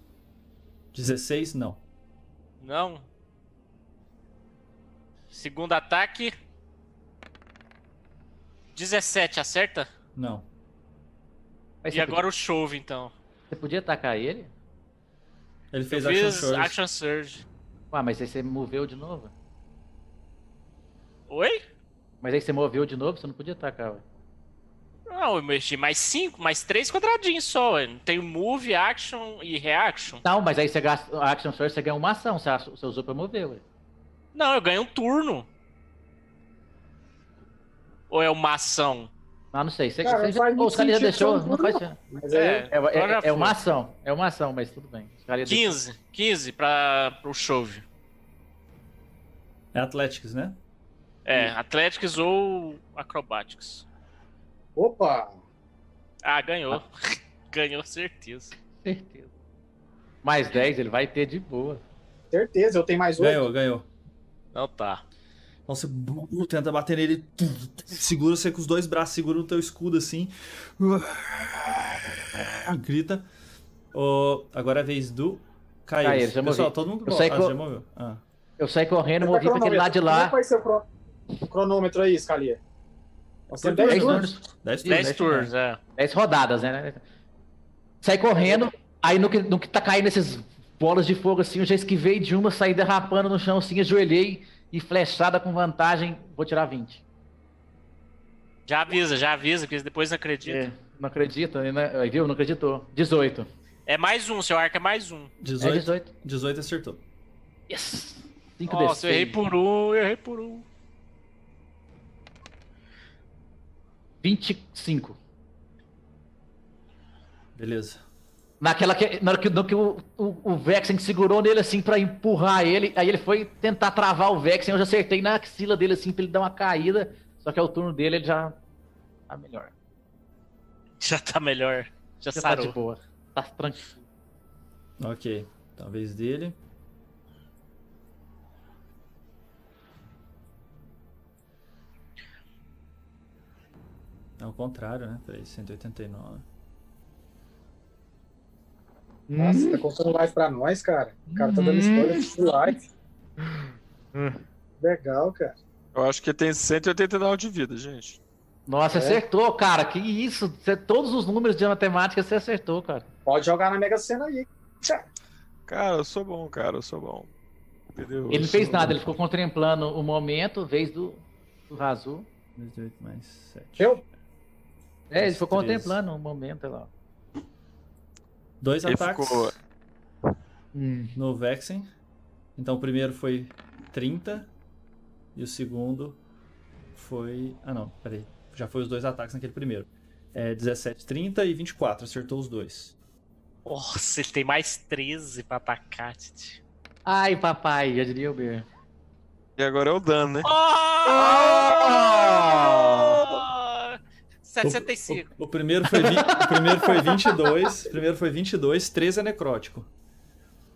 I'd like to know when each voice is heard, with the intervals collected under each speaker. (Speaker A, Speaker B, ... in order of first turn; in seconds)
Speaker A: 0.9-1.8, 10.2-10.5, 15.7-16.8, 49.7-50.6, 63.2-63.9, 65.7-73.3, 73.9-78.2, 83.5-85.5, 105.4-107.0, 117.5-118.0, 135.0-136.6, 144.4-146.4, 168.5-169.1, 172.6-174.0, 175.2-176.0, 178.6-179.6, 181.2-181.9, 182.6-184.5, 185.4-186.2, 186.9-192.9, 204.6-209.9
Speaker B: 2.6-3.1, 5.3-6.3, 8.8-9.9, 11.9-13.1, 15.9-17.4, 21.3-21.6, 25.1-30.2, 34.3-35.5, 38.1-39.1, 42.3-43.6, 45.5-47.8, 51.2-53.9, 56.2-58.5, 64.5-65.0, 84.8-85.8, 98.7-100.7, 103.9-105.3, 108.7-110.7, 131.0-132.8, 193.7-196.6, 200.4-202.0, 202.8-205.3
Speaker C: 11.8-12.2, 13.5-14.5, 17.9-19.3, 22.2-24.0, 30.2-33.6, 39.5-42.0, 42.7-45.8, 58.8-59.3, 60.2-61.8, 76.0-77.6, 78.6-80.4, 83.9-85.1, 86.0-87.0, 88.0-97.0, 100.4-103.5, 105.6-106.1, 107.7-109.4, 114.2-115.2, 118.6-128.6, 129.3-129.7, 132.3-133.9, 149.3-149.8, 151.3-152.3, 153.4-154.4, 158.7-163.1, 168.3-172.3, 175.1-176.9, 180.7-181.2, 197.1-198.7, 201.1-203.2, 205.9-207.2
Speaker D: 40.0-42.7, 54.8-55.4, 62.3-63.5, 79.2-80.9, 81.5-82.6, 83.5-84.3, 149.4-152.8, 154.8-155.6, 158.9-159.2, 163.3-165.1
Speaker E: 155.9-158.2, 165.7-167.3, 167.9-168.6, 178.8-179.5, 199.6-200.5, 201.2-203.4